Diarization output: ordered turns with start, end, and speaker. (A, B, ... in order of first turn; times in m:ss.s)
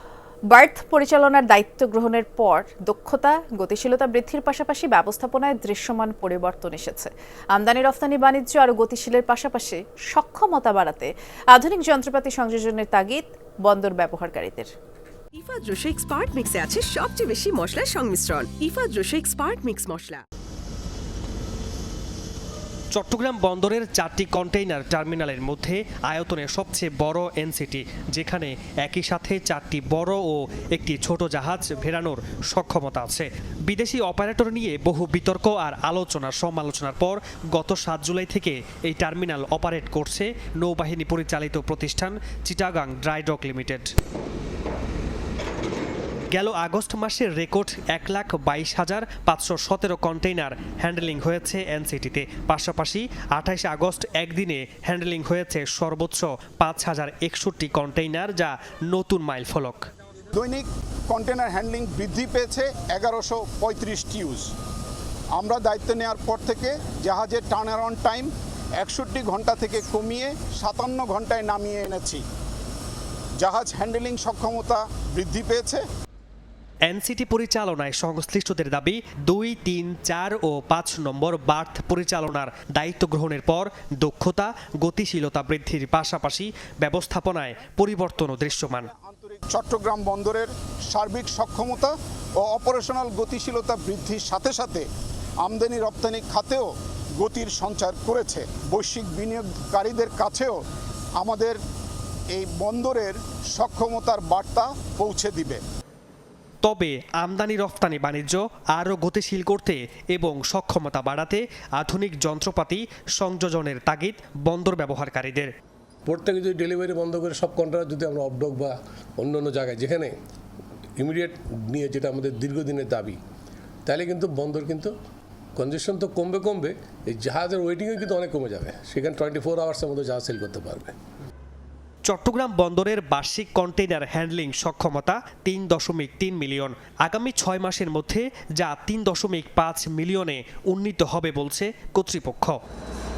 0:00.5-0:14.7 A
0:15.3-0:20.2 B
0:22.9-0:43.9 C
0:46.3-0:59.9 C
1:00.3-1:04.5 D
1:05.3-1:12.2 D
1:13.4-1:15.8 D
1:16.8-1:28.9 C
1:28.9-1:34.9 D
1:35.4-1:40.6 D
1:41.2-1:41.6 D
1:42.3-1:45.6 D
1:46.6-1:55.5 C
1:56.0-2:00.1 E
2:01.0-2:03.2 E
2:03.9-2:04.9 E
2:05.6-2:10.9 E
2:12.0-2:22.6 C